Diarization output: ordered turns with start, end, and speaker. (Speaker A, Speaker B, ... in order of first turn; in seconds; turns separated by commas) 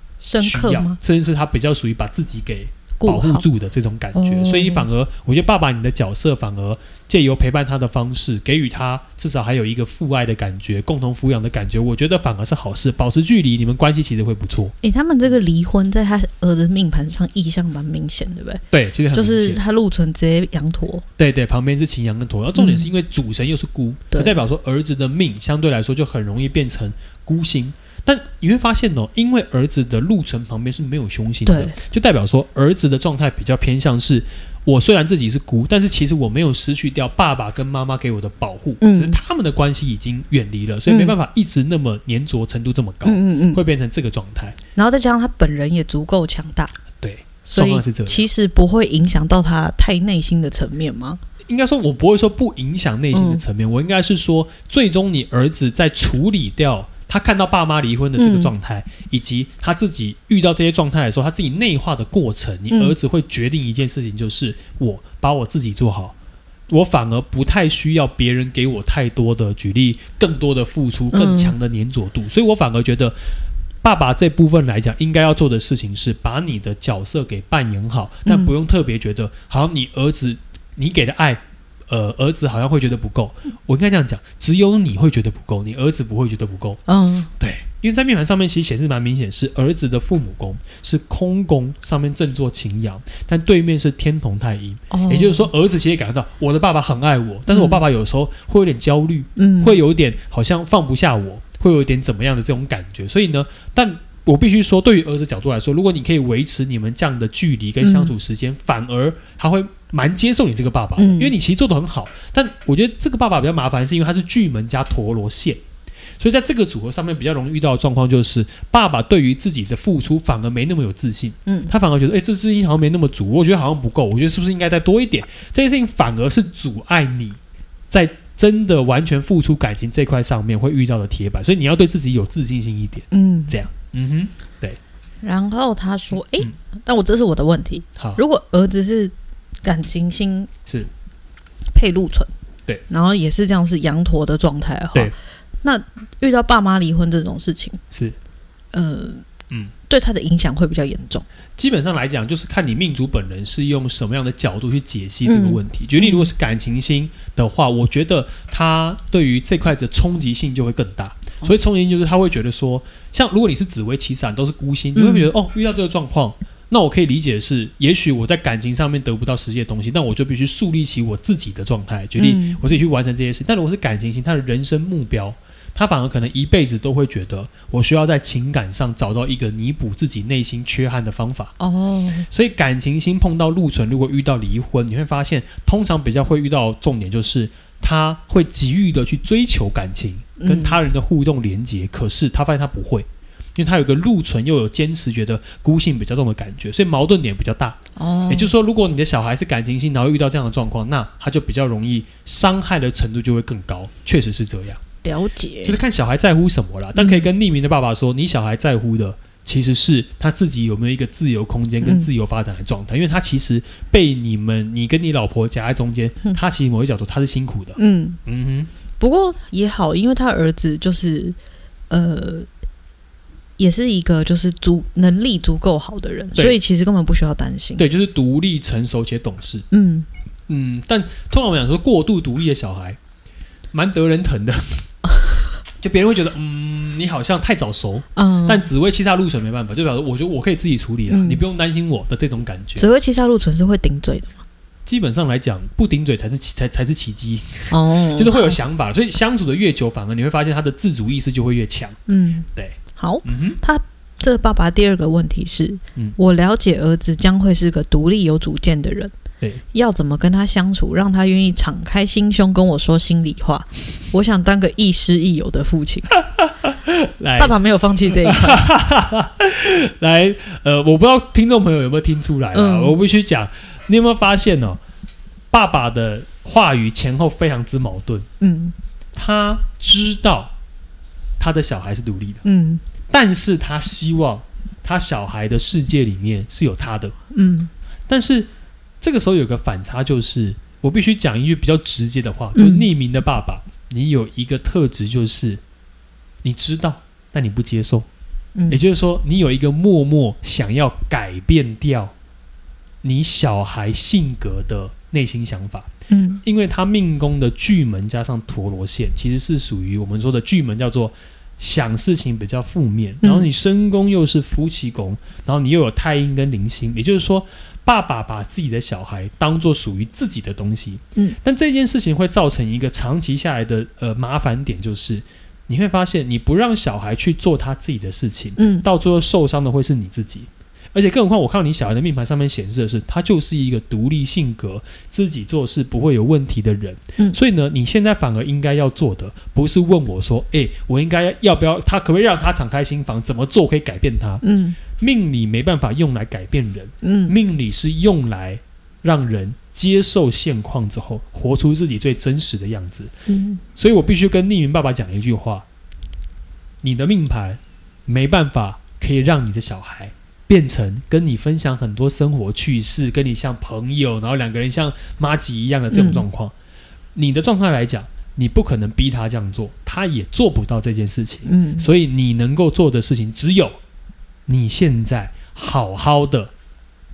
Speaker A: 0.2-1.0, Speaker B: 0.4-14.7, Speaker A: 3.0-3.4, Speaker A: 4.1-4.9, Speaker A: 14.8-21.0, Speaker B: 18.7-19.6, Speaker B: 21.2-44.6, Speaker A: 22.5-22.9, Speaker A: 24.1-24.4, Speaker A: 31.4-31.8, Speaker A: 38.8-39.2, Speaker A: 40.9-41.1, Speaker A: 43.0-43.6, Speaker A: 44.8-46.7, Speaker B: 47.0-48.3, Speaker A: 47.4-51.2, Speaker B: 51.5-66.1, Speaker A: 53.1-53.4, Speaker A: 58.2-58.5, Speaker A: 62.7-62.9, Speaker B: 66.7-73.2, Speaker A: 71.1-71.5, Speaker B: 73.8-86.8, Speaker A: 78.2-78.5, Speaker A: 86.9-87.3, Speaker B: 87.4-115.6, Speaker A: 94.9-95.5, Speaker A: 97.5-97.8, Speaker A: 99.4-99.8, Speaker A: 107.8-108.1, Speaker A: 111.0-111.3, Speaker B: 116.2-127.4, Speaker A: 121.5-121.7, Speaker B: 127.9-134.8, Speaker A: 133.1-133.5, Speaker A: 135.2-140.5, Speaker A: 141.7-142.3, Speaker A: 142.9-147.8, Speaker B: 147.9-148.2, Speaker A: 148.7-149.3, Speaker A: 149.9-151.2, Speaker B: 151.6-181.5, Speaker A: 155.2-156.3, Speaker A: 164.9-165.3, Speaker A: 172.2-172.6, Speaker A: 181.6-182.3, Speaker B: 182.3-197.8, Speaker A: 190.4-190.8, Speaker A: 197.9-198.5, Speaker B: 198.3-204.8, Speaker A: 205.0-205.8, Speaker B: 205.6-218.7, Speaker A: 206.9-207.3, Speaker A: 211.8-212.1, Speaker A: 217.8-218.2, Speaker A: 219.0-221.4, Speaker A: 221.9-222.5, Speaker A: 223.6-227.8, Speaker B: 227.8-229.7, Speaker A: 229.7-230.1, Speaker B: 230.5-233.0, Speaker B: 233.7-234.9, Speaker B: 235.8-242.9, Speaker A: 238.1-238.7, Speaker A: 241.1-241.4, Speaker A: 242.8-244.4, Speaker B: 244.8-252.0, Speaker A: 247.7-248.6, Speaker A: 252.1-259.1, Speaker B: 252.5-253.6, Speaker A: 259.7-266.1, Speaker B: 266.4-274.8, Speaker A: 267.4-268.7, Speaker A: 272.5-273.0, Speaker B: 275.5-278.3, Speaker A: 278.4-278.7, Speaker B: 279.1-280.5, Speaker B: 281.4-282.4, Speaker A: 282.4-282.8, Speaker B: 283.1-287.1, Speaker A: 287.3-287.7, Speaker B: 288.1-288.5, Speaker B: 289.0-295.6, Speaker A: 292.5-292.9, Speaker B: 296.4-298.1, Speaker A: 298.5-298.8, Speaker B: 298.7-302.1, Speaker B: 303.0-305.9, Speaker A: 306.1-306.4, Speaker B: 306.4-344.4, Speaker A: 313.2-313.5, Speaker A: 328.6-328.9, Speaker A: 344.4-344.8, Speaker B: 344.9-353.1, Speaker A: 347.0-347.3, Speaker A: 353.3-353.6, Speaker B: 353.8-355.6, Speaker B: 356.8-366.5, Speaker A: 365.9-366.2, Speaker B: 367.1-373.8, Speaker A: 371.5-371.9, Speaker B: 374.5-376.5